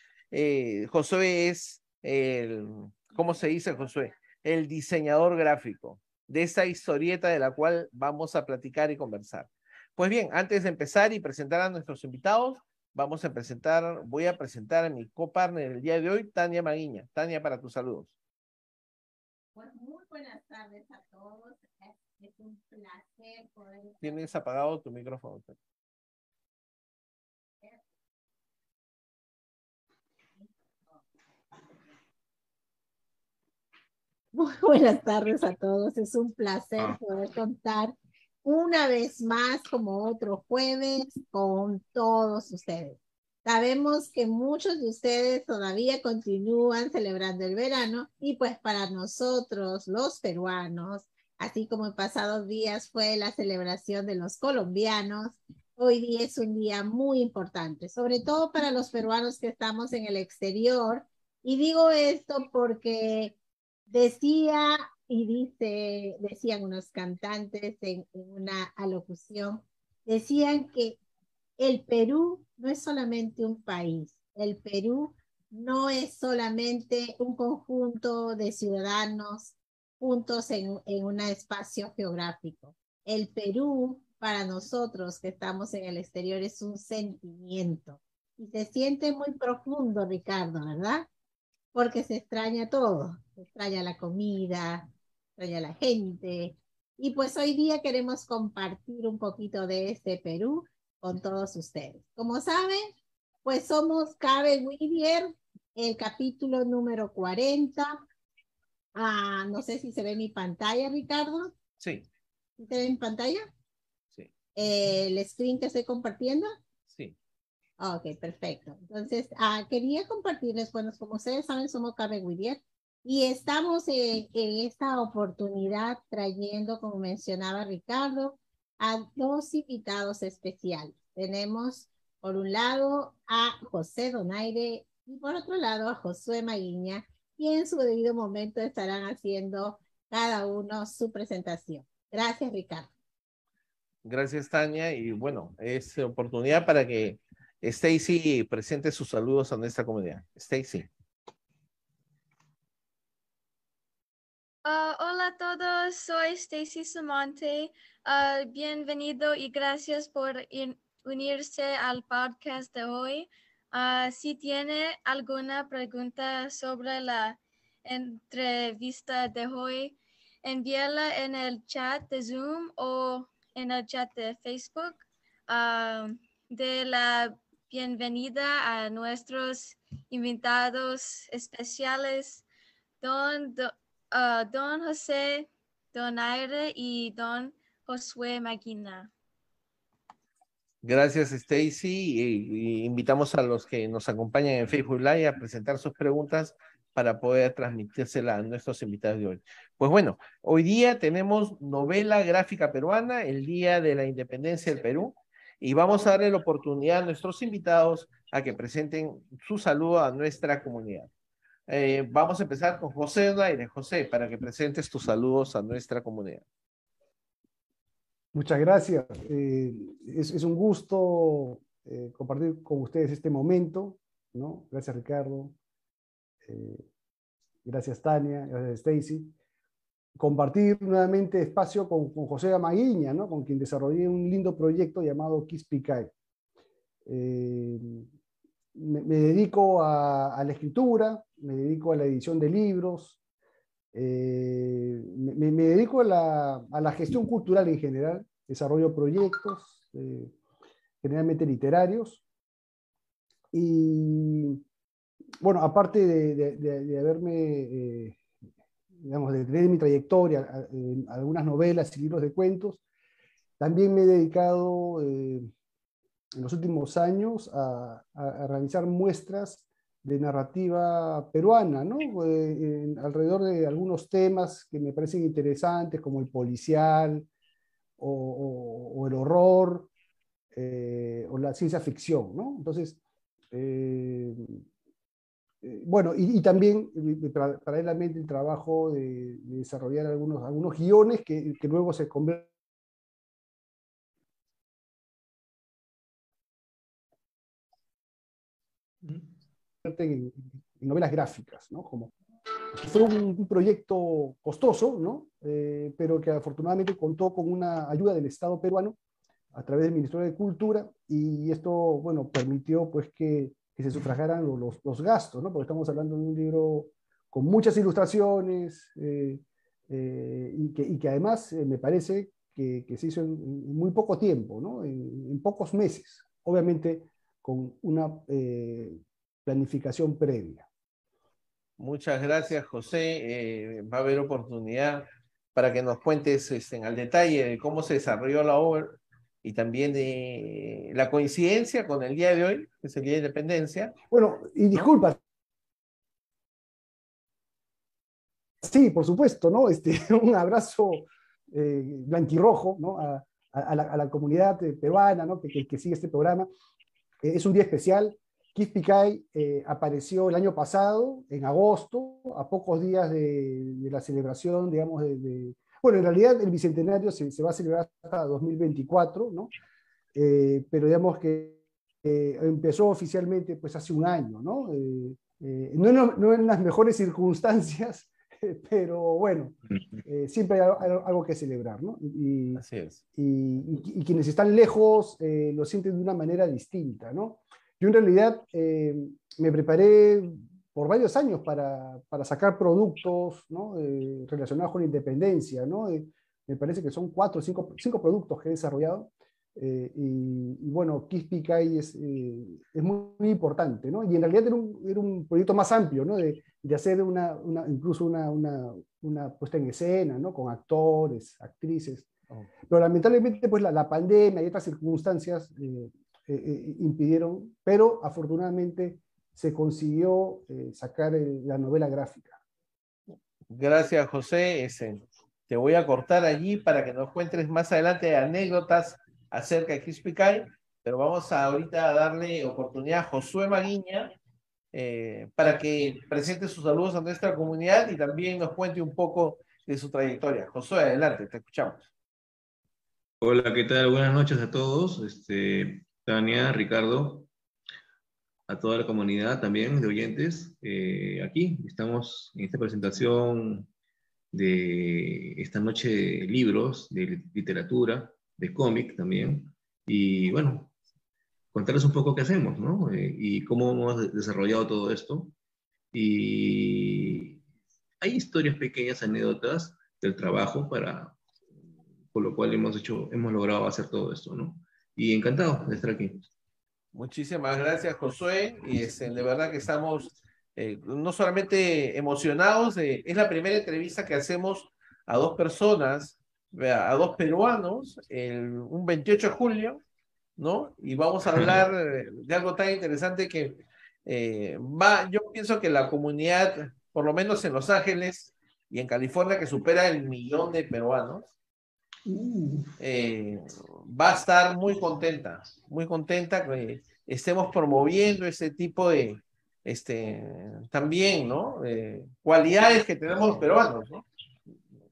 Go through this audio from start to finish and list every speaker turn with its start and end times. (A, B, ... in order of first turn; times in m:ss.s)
0:00.3-0:18.2 A
0:19.6-0:24.3 B
0:24.0-0:25.6 A
0:34.3-1:03.4 B
1:03.9-1:11.0 B
1:11.6-1:31.1 B
1:31.7-1:42.9 B
1:43.4-1:48.0 B
1:49.0-1:51.5 B
1:51.8-1:52.1 A
1:52.6-1:53.5 B
1:54.6-1:56.6 B
1:56.9-1:57.2 A
1:57.8-2:22.9 B
2:24.0-2:30.9 A
2:34.6-3:02.4 C
3:03.0-3:09.1 C
3:10.8-3:31.1 A
3:31.7-3:36.4 A
3:38.3-3:45.6 D
3:46.4-3:46.9 D
3:47.6-3:49.3 D
3:50.2-3:56.1 D
3:57.1-3:58.1 D
3:58.8-4:03.2 D
4:03.9-4:10.3 D
4:11.0-4:12.2 D
4:13.5-4:14.6 D
4:15.4-4:18.2 D
4:19.0-4:22.8 D
4:23.6-4:25.5 D
4:26.4-4:37.3 D
4:38.0-4:39.9 D
4:40.5-4:43.0 D
4:43.5-4:44.6 D
4:45.6-4:52.5 D
4:59.8-5:02.1 D
5:02.8-5:09.0 D
5:09.5-5:30.7 D
5:31.8-5:44.0 A
5:44.1-5:45.2 D
5:48.6-5:56.5 D
5:57.2-6:09.5 D
6:10.2-6:22.6 D
6:22.6-6:23.0 A
6:23.2-6:52.1 D
6:52.6-7:02.4 D
7:03.5-7:14.1 A
7:14.7-7:21.8 A
7:23.2-7:27.3 E
7:28.5-7:33.7 E
7:34.3-7:40.7 E
7:41.5-7:45.3 E
7:45.9-7:47.4 E
7:48.0-7:51.2 E
7:52.1-7:56.3 E
7:56.9-8:09.8 A
8:10.4-8:21.3 A
8:22.1-8:22.7 D
8:22.8-8:34.0 A